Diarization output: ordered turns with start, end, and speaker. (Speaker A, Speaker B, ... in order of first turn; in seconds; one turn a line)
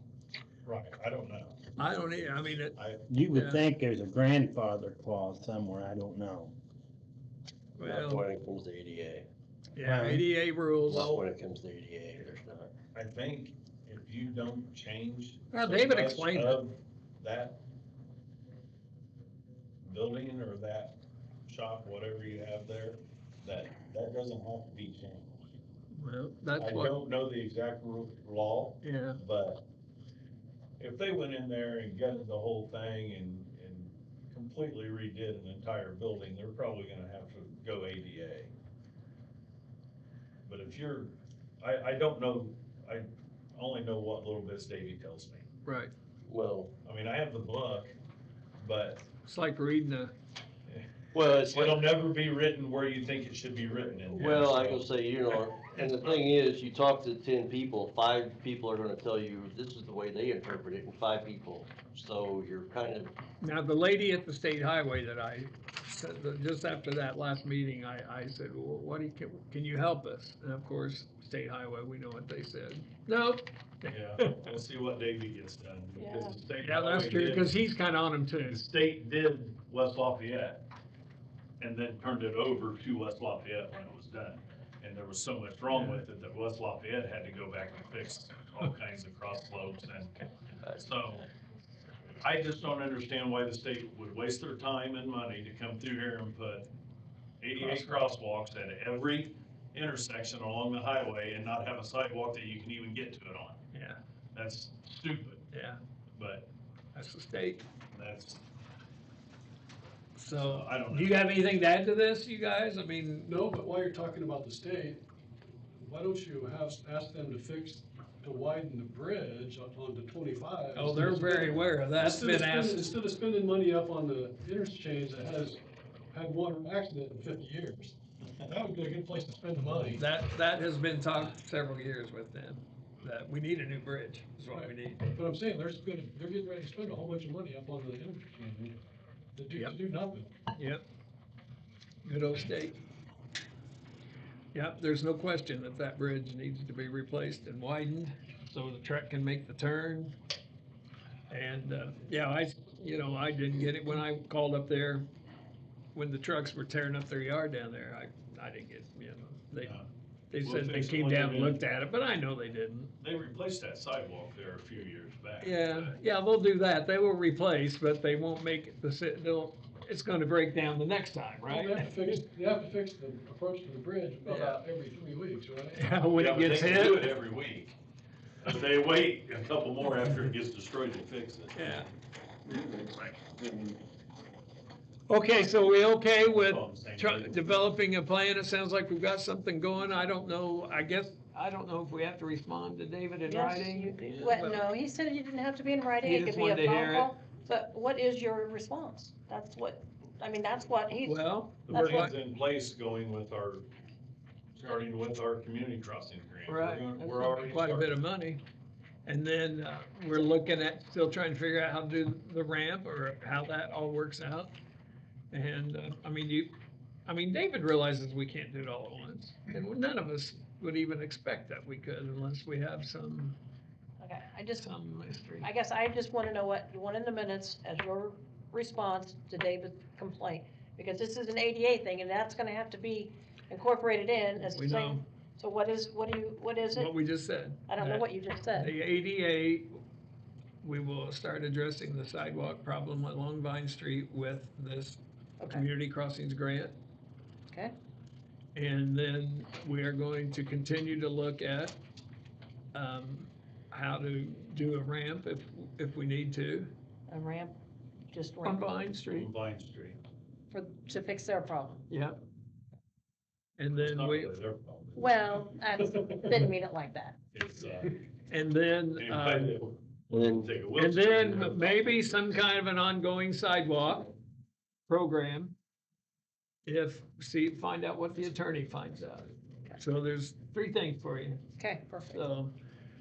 Speaker A: 0.7-3.0
Speaker B: 1.8-2.8
Speaker C: 3.1-6.5
Speaker B: 3.3-3.7
Speaker B: 7.8-8.3
Speaker D: 7.8-9.3
Speaker B: 9.8-11.2
Speaker C: 9.8-10.3
Speaker D: 10.8-12.7
Speaker A: 12.9-17.6
Speaker B: 15.5-16.6
Speaker A: 19.8-25.4
Speaker B: 25.9-27.0
Speaker A: 26.6-29.6
Speaker B: 28.8-29.2
Speaker A: 30.8-38.5
Speaker A: 40.5-45.5
Speaker B: 45.7-45.9
Speaker D: 46.3-46.7
Speaker A: 46.8-48.0
Speaker A: 48.6-49.1
Speaker B: 49.2-50.1
Speaker A: 50.7-56.2
Speaker D: 51.1-51.8
Speaker D: 54.1-63.1
Speaker B: 63.4-74.5
Speaker A: 73.9-77.6
Speaker E: 76.0-76.4
Speaker B: 76.6-78.6
Speaker A: 78.5-80.7
Speaker A: 81.6-90.2
Speaker B: 85.7-86.0
Speaker D: 90.6-91.0
Speaker A: 90.8-91.2
Speaker A: 92.2-96.7
Speaker A: 97.4-103.6
Speaker B: 97.6-98.0
Speaker B: 103.7-104.0
Speaker A: 104.3-105.5
Speaker B: 105.5-105.8
Speaker A: 106.2-106.5
Speaker B: 107.0-107.7
Speaker A: 107.9-108.4
Speaker B: 110.2-113.3
Speaker A: 110.3-111.1
Speaker F: 113.2-115.0
Speaker F: 115.8-125.6
Speaker B: 120.8-122.9
Speaker F: 126.1-130.0
Speaker B: 129.9-135.1
Speaker F: 134.5-138.8
Speaker F: 139.3-140.3
Speaker B: 140.6-140.8
Speaker B: 142.1-142.8
Speaker B: 144.5-150.2
Speaker B: 151.3-155.1
Speaker B: 155.9-159.8
Speaker B: 160.3-162.9
Speaker A: 160.4-161.6
Speaker A: 163.0-165.9
Speaker B: 165.4-172.2
Speaker F: 171.5-175.9
Speaker B: 174.3-174.6
Speaker B: 175.8-177.2
Speaker A: 176.2-177.8
Speaker A: 178.4-181.9
Speaker B: 181.5-181.9
Speaker B: 185.1-194.7
Speaker A: 186.4-187.4
Speaker E: 193.2-202.1
Speaker B: 196.0-197.2
Speaker B: 201.1-202.1
Speaker A: 201.6-203.7
Speaker A: 204.6-208.0
Speaker B: 206.5-208.4
Speaker B: 209.1-214.6
Speaker B: 215.3-216.5
Speaker B: 217.1-223.4
Speaker E: 224.0-224.8
Speaker B: 224.6-225.5
Speaker E: 225.4-237.0
Speaker B: 234.5-235.0
Speaker B: 236.7-239.8
Speaker E: 237.7-238.8
Speaker B: 240.6-246.8
Speaker E: 245.4-245.7
Speaker E: 247.5-247.8
Speaker B: 248.6-251.8
Speaker B: 252.7-256.7
Speaker E: 257.1-257.6
Speaker E: 258.1-258.7
Speaker B: 258.4-259.3
Speaker A: 259.1-260.0
Speaker E: 260.5-261.9
Speaker B: 261.9-262.2
Speaker B: 263.6-264.3
Speaker A: 263.7-265.2
Speaker E: 265.0-267.2
Speaker A: 267.4-268.0
Speaker B: 268.3-269.6
Speaker A: 269.0-271.7
Speaker D: 270.1-270.5
Speaker B: 270.8-274.1
Speaker B: 274.9-275.6
Speaker B: 276.7-281.4
Speaker E: 281.6-282.3
Speaker B: 282.1-282.5